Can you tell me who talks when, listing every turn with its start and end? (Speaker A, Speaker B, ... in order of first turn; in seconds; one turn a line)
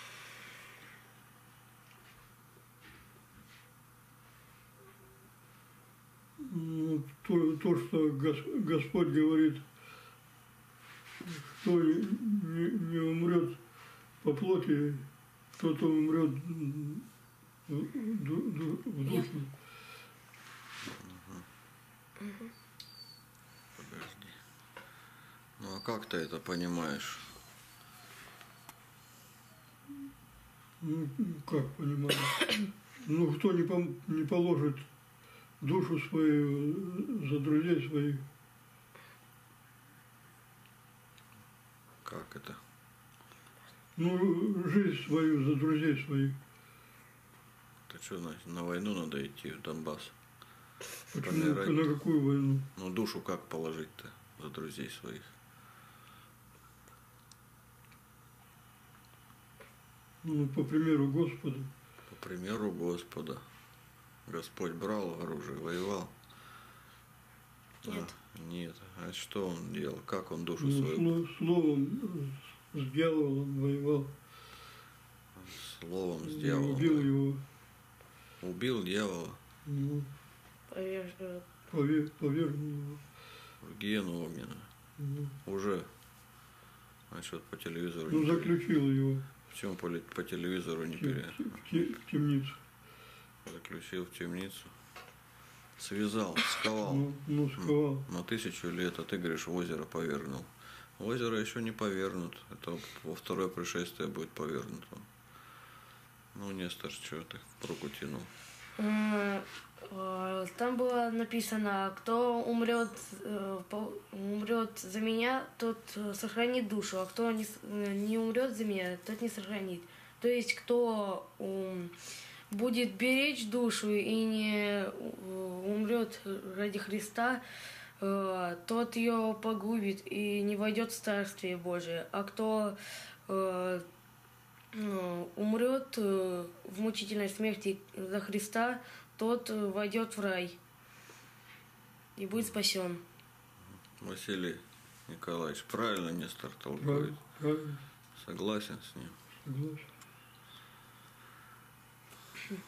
Speaker A: 6.4-9.6
Speaker A: 11.2-13.6
Speaker A: 14.2-17.1
Speaker A: 17.7-19.5
Speaker B: 20.8-21.4
Speaker C: 22.2-22.5
Speaker B: 23.8-24.4
Speaker B: 25.6-27.3
Speaker A: 30.8-34.9
Speaker A: 35.6-38.2
Speaker B: 42.0-42.6
Speaker A: 44.0-46.4
Speaker B: 47.9-50.1
Speaker A: 51.1-52.7
Speaker B: 51.1-51.9
Speaker B: 52.8-55.3
Speaker A: 60.2-61.7
Speaker B: 62.1-63.5
Speaker B: 64.2-66.1
Speaker B: 67.8-71.1
Speaker C: 67.8-68.1
Speaker A: 70.6-74.1
Speaker B: 75.4-77.1
Speaker A: 76.2-77.4
Speaker B: 78.4-79.4
Speaker A: 79.7-80.1
Speaker C: 80.7-81.5
Speaker A: 81.7-83.0
Speaker B: 83.6-84.7
Speaker A: 85.0-85.3
Speaker B: 85.4-85.9
Speaker B: 87.1-88.5
Speaker A: 88.1-89.2
Speaker B: 89.5-91.8
Speaker A: 91.0-92.6
Speaker B: 93.4-94.7
Speaker B: 95.8-97.1
Speaker A: 96.8-98.0
Speaker B: 97.6-105.1
Speaker B: 106.3-108.3
Speaker C: 108.8-121.9
Speaker C: 122.5-127.4
Speaker C: 128.0-133.8
Speaker C: 134.7-140.6
Speaker C: 142.2-143.0
Speaker B: 144.0-147.2
Speaker A: 146.8-147.8
Speaker B: 148.1-149.2
Speaker A: 149.4-149.9